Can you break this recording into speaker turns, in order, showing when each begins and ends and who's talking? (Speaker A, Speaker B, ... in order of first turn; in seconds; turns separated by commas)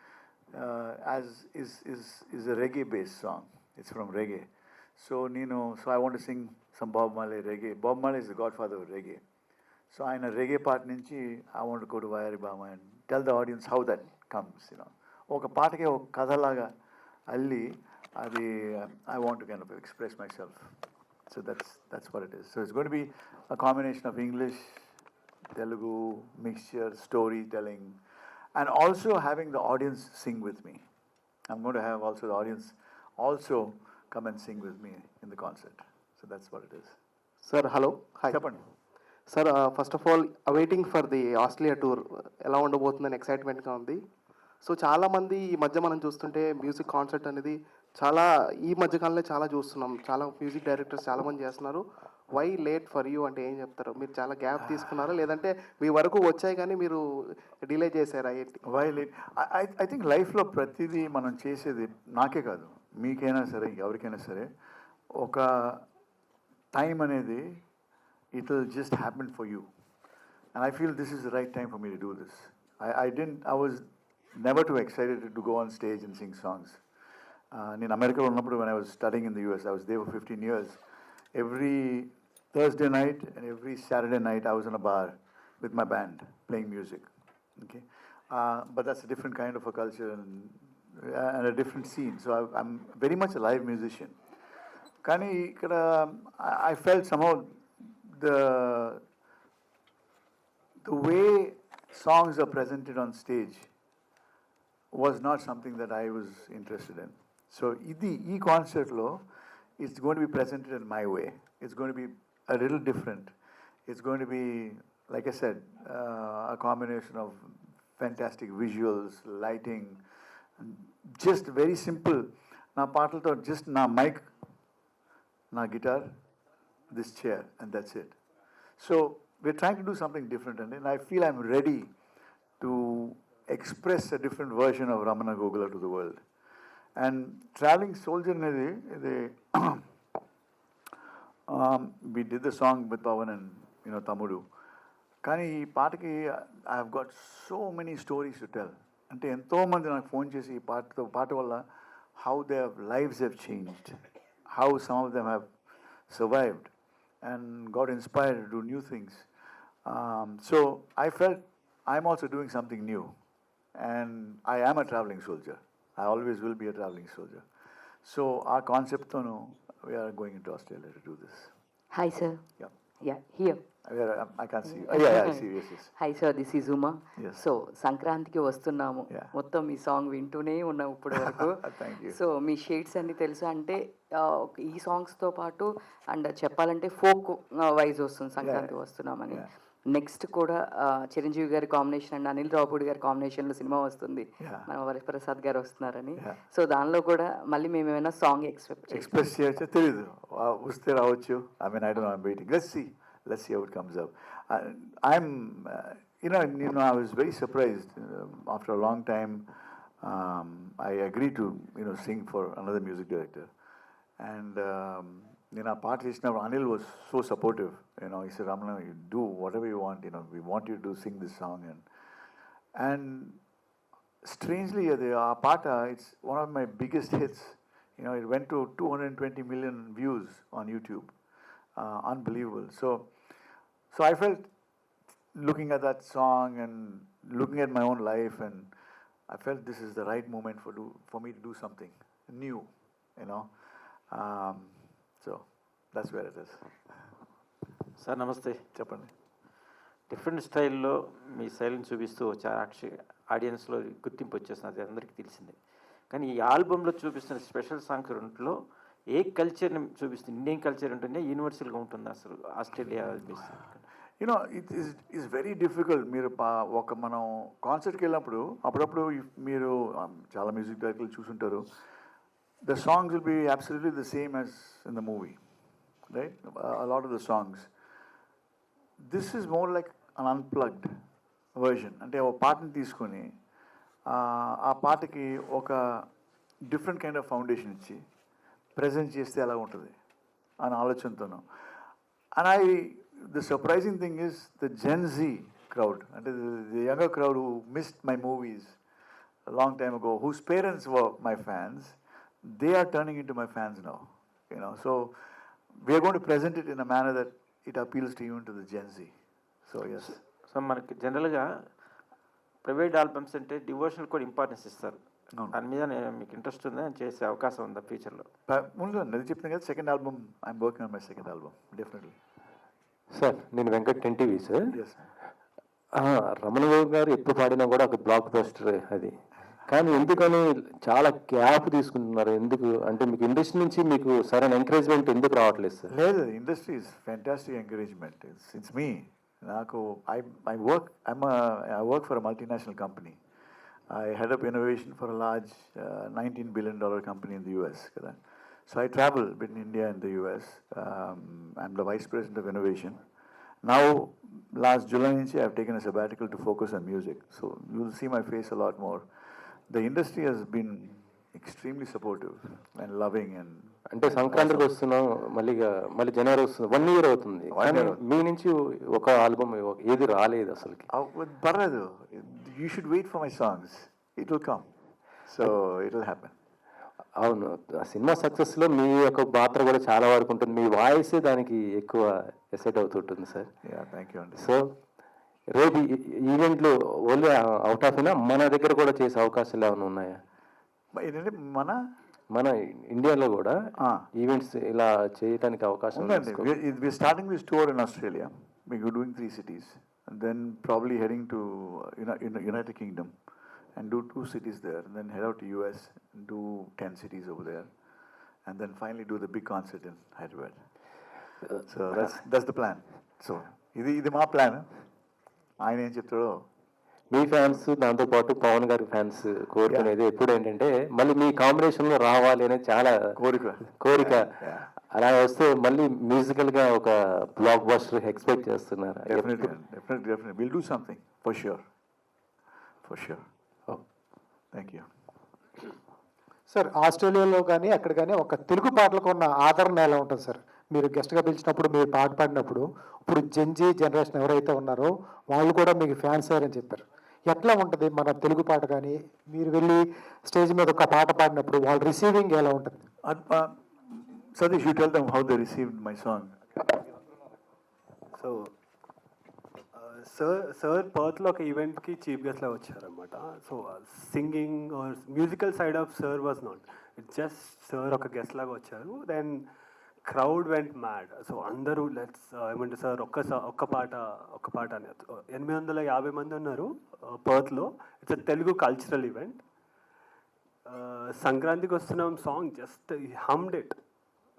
Speaker A: 0.5-9.2, Speaker A: 9.9-16.7, Speaker A: 17.3-20.8, Speaker A: 21.3-24.9, Speaker A: 25.5-28.0, Speaker A: 28.5-30.8, Speaker A: 31.5-37.0, Speaker B: 37.4-38.4, Speaker A: 38.3-38.6, Speaker B: 39.3-44.0, Speaker B: 44.6-51.8, Speaker B: 52.4-57.0, Speaker B: 57.6-58.6, Speaker A: 58.7-64.5, Speaker A: 65.2-65.8, Speaker A: 66.7-67.6, Speaker A: 68.3-69.7, Speaker A: 70.5-76.8, Speaker A: 77.5-80.8, Speaker A: 81.3-94.2, Speaker A: 95.0-99.0, Speaker A: 100.8-103.7, Speaker A: 104.9-109.2, Speaker A: 109.8-113.3, Speaker A: 113.9-120.0, Speaker A: 120.6-124.3, Speaker A: 125.5-126.2, Speaker A: 126.9-128.2, Speaker A: 128.8-131.9, Speaker A: 132.6-136.2, Speaker A: 136.9-139.8, Speaker A: 141.5-144.4, Speaker A: 145.2-151.6, Speaker A: 152.2-155.5, Speaker A: 156.1-156.7, Speaker A: 157.2-159.3, Speaker A: 159.8-163.2, Speaker A: 163.7-167.4, Speaker A: 168.0-171.5, Speaker C: 171.9-172.4, Speaker C: 173.0-173.6, Speaker A: 173.8-175.9, Speaker C: 174.7-199.1, Speaker A: 177.2-177.4, Speaker A: 181.1-182.2, Speaker A: 188.4-188.7, Speaker A: 194.4-194.7, Speaker A: 198.9-209.5, Speaker A: 210.0-213.5, Speaker A: 214.2-221.8, Speaker A: 222.7-223.4, Speaker A: 224.2-231.1, Speaker A: 231.8-233.3, Speaker A: 233.9-234.5, Speaker A: 235.3-238.7, Speaker A: 239.3-246.9, Speaker D: 248.0-248.6, Speaker A: 248.7-249.1, Speaker D: 250.1-255.6, Speaker D: 256.1-258.6, Speaker D: 259.1-263.8, Speaker A: 264.2-271.7, Speaker A: 272.6-275.4, Speaker A: 276.1-277.7, Speaker A: 279.0-281.0, Speaker A: 281.6-283.3, Speaker A: 284.1-286.1, Speaker A: 286.6-288.0, Speaker A: 288.8-289.9, Speaker A: 290.6-291.8, Speaker A: 292.3-298.8, Speaker A: 299.5-309.1, Speaker A: 309.6-310.2, Speaker D: 310.0-311.6, Speaker D: 312.6-318.3, Speaker A: 318.5-322.1, Speaker E: 323.1-324.8, Speaker A: 324.7-325.0, Speaker E: 325.9-335.9, Speaker A: 335.9-343.2, Speaker A: 343.9-348.2, Speaker A: 348.7-353.0, Speaker A: 353.6-364.8, Speaker E: 363.9-370.9, Speaker A: 367.5-368.0, Speaker A: 370.9-374.7, Speaker A: 375.2-376.3, Speaker E: 377.2-383.5, Speaker A: 383.6-384.4, Speaker E: 384.4-384.7, Speaker E: 385.5-390.2, Speaker A: 390.9-391.8, Speaker E: 392.3-393.5, Speaker A: 393.8-394.1, Speaker E: 394.2-396.5, Speaker A: 395.9-403.1, Speaker A: 403.7-407.7, Speaker A: 408.4-410.7, Speaker A: 411.6-414.7, Speaker A: 415.6-416.4, Speaker E: 417.1-423.1, Speaker A: 419.7-419.9, Speaker A: 423.1-424.7, Speaker E: 423.8-424.3, Speaker E: 424.9-429.5, Speaker A: 429.1-431.6, Speaker A: 432.9-433.3, Speaker A: 434.5-434.9, Speaker F: 436.5-452.9, Speaker A: 453.0-456.8, Speaker G: 458.1-458.5, Speaker G: 459.7-469.4, Speaker G: 470.0-479.4, Speaker G: 480.6-483.8